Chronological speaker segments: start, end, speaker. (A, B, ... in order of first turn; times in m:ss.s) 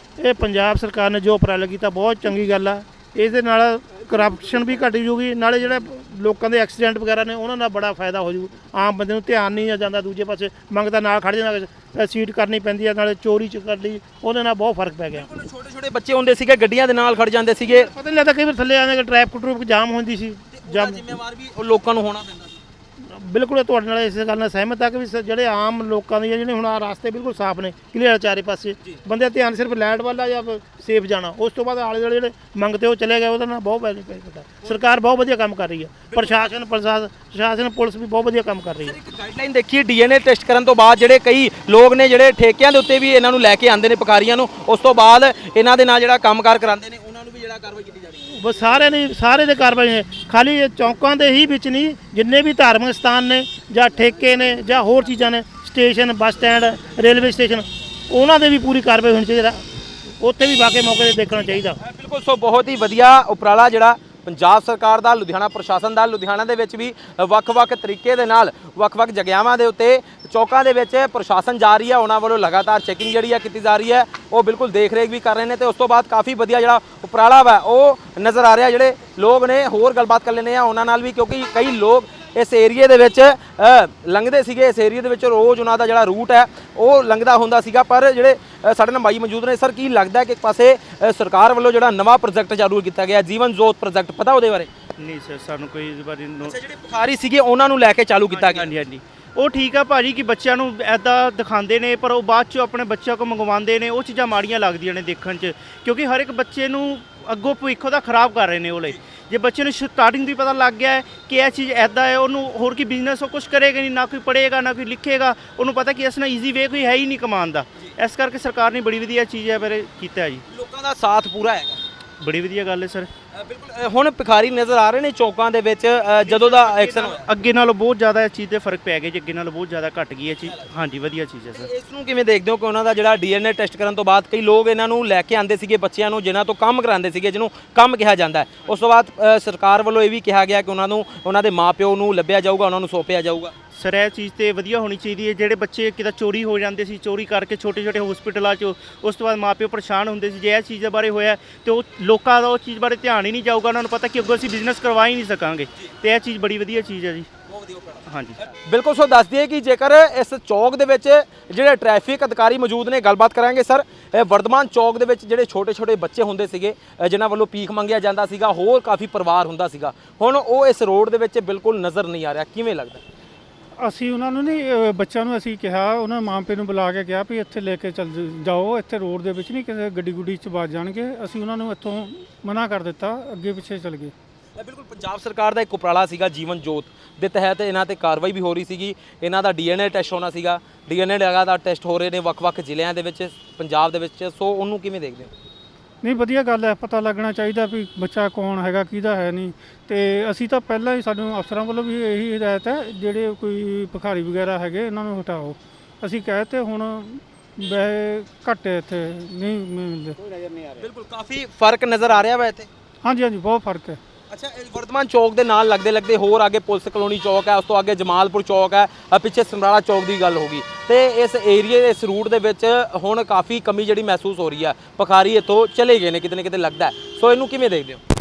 0:00.2-0:15.3 A
0:15.1-0:17.9 B
0:17.7-0:21.1 A
0:20.5-0:22.6 B
0:23.0-0:39.0 A
0:36.1-0:36.5 B
0:38.8-0:48.3 B
0:48.4-0:59.6 A
1:00.2-1:01.8 A
1:01.8-1:34.7 B
1:35.0-1:36.5 C
1:36.4-1:38.7 B
1:38.3-2:00.4 C
2:00.5-2:01.8 B
2:02.2-2:03.1 C
2:03.3-2:07.3 B
2:06.2-2:11.7 C
2:11.5-2:23.5 B
2:23.7-2:37.3 C
2:37.5-2:53.0 B
2:38.1-2:38.4 C
2:53.8-3:04.1 D
3:04.6-3:15.3 B
3:16.0-3:30.2 D
3:30.7-3:32.7 B
3:33.0-3:34.0 D
3:34.3-3:48.0 B